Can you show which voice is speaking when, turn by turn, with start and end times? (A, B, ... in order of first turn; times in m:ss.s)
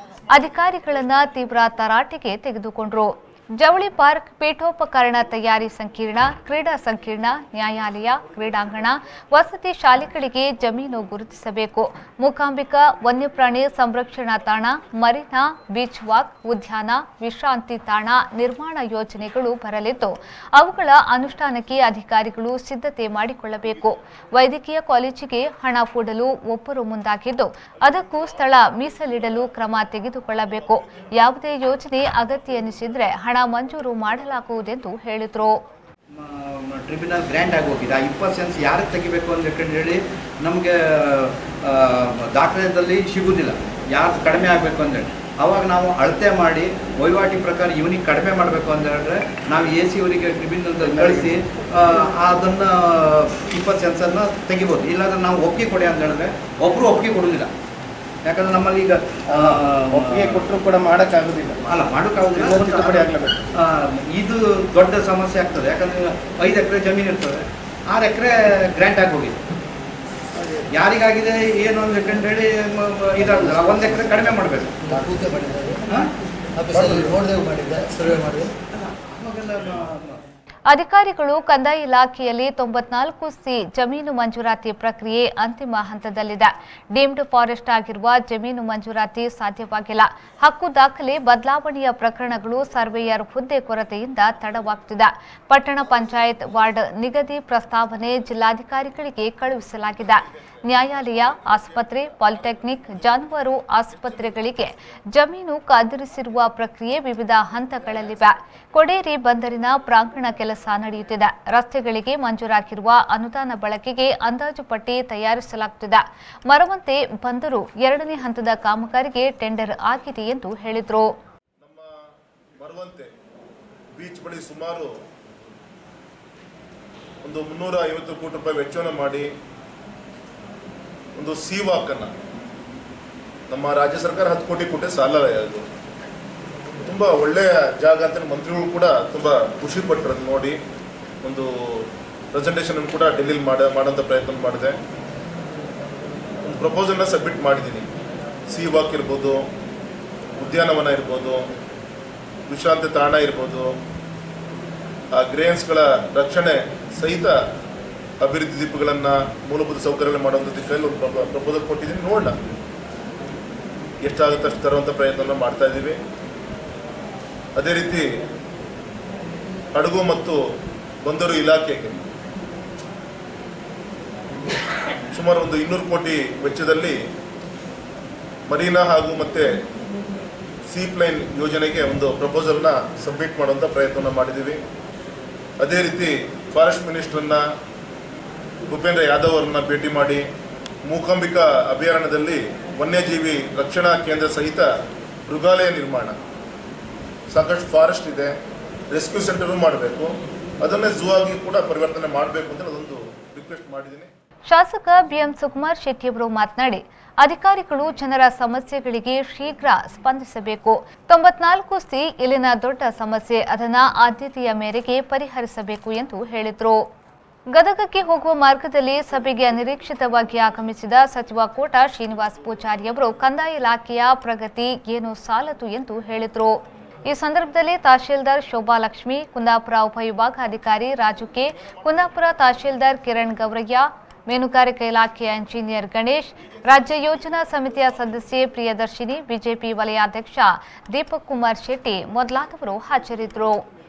0:00.3-0:35.6 A
0:36.1-0:57.5 B
0:50.8-0:51.3 C
0:58.2-1:00.5 B
0:59.3-1:01.6 C
1:01.6-1:09.4 B
1:02.3-1:03.4 C
1:10.7-1:14.8 B
1:13.3-1:14.2 D
1:14.8-1:15.8 D
1:16.6-1:18.5 D
1:18.7-1:20.2 B
1:20.7-2:01.1 A
2:01.6-2:02.0 E
2:02.6-2:03.1 E
2:04.0-2:04.9 E
2:07.2-2:09.3 E
2:11.2-2:12.1 E
2:13.5-2:15.6 E
2:16.8-2:20.6 E
2:21.2-2:24.8 E
2:26.4-2:27.9 E
2:28.5-2:29.4 E
2:30.4-2:31.4 E
2:32.5-2:33.7 E
2:35.2-2:37.4 E
2:38.2-2:42.4 E
2:44.0-2:46.0 E
2:47.6-2:48.1 E
2:49.7-2:50.4 E
2:51.0-2:52.0 E
2:55.1-2:57.0 E
2:58.5-2:59.5 E
3:00.7-3:04.6 E
3:05.6-3:07.4 E
3:08.7-3:10.2 E
3:10.8-3:14.7 E
3:15.3-3:16.2 E
3:17.3-3:18.3 E
3:18.9-3:24.1 E
3:24.5-3:36.8 A
3:37.5-4:03.6 A